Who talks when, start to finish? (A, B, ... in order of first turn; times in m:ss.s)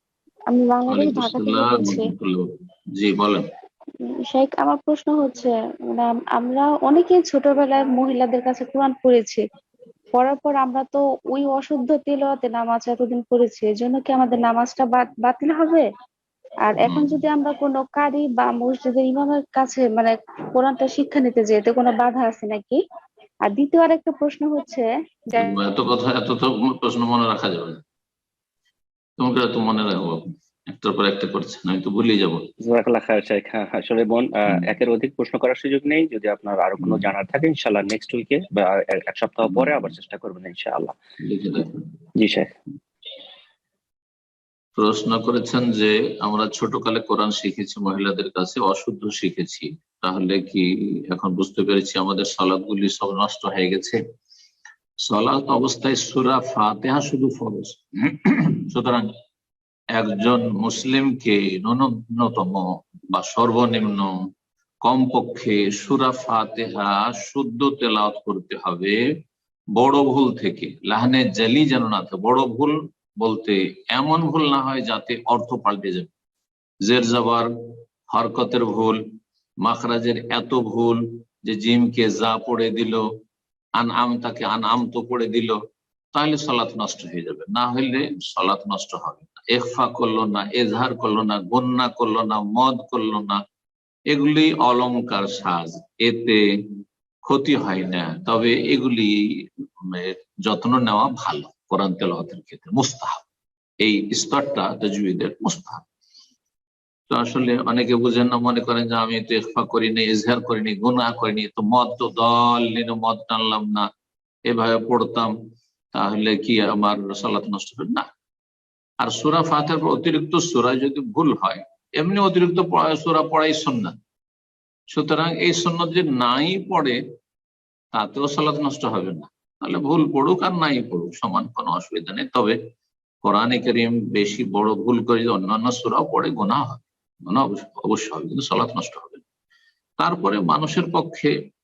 0:00.5-0:02.0 A
0:00.9-0:02.4 B
0:03.0-0:03.5 B
0:04.3-0:09.4 A
0:10.1-0:15.8 A
0:16.6-0:22.8 A
0:16.8-0:17.2 B
0:23.4-0:25.5 A
0:25.4-0:27.8 B
0:29.2-0:32.5 B
0:32.6-0:40.9 C
0:39.4-0:39.9 B
0:41.2-0:41.8 B
0:42.2-0:42.5 C
0:44.8-0:54.0 B
0:55.0-0:59.1 B
0:59.9-1:04.1 B
1:04.8-1:09.0 B
1:09.7-1:16.1 B
1:16.8-1:17.5 B
1:18.1-1:19.0 B
1:19.6-1:23.0 B
1:23.8-1:25.6 B
1:26.1-1:33.4 B
1:34.1-1:36.4 B
1:37.2-1:43.2 B
1:43.8-1:45.8 B
1:47.1-1:53.9 B
1:54.5-1:55.3 B
1:55.9-1:58.1 B
1:59.0-2:03.9 B
2:04.9-2:07.0 B
2:07.9-2:12.6 B
2:13.2-2:19.2 B
2:20.0-2:21.3 B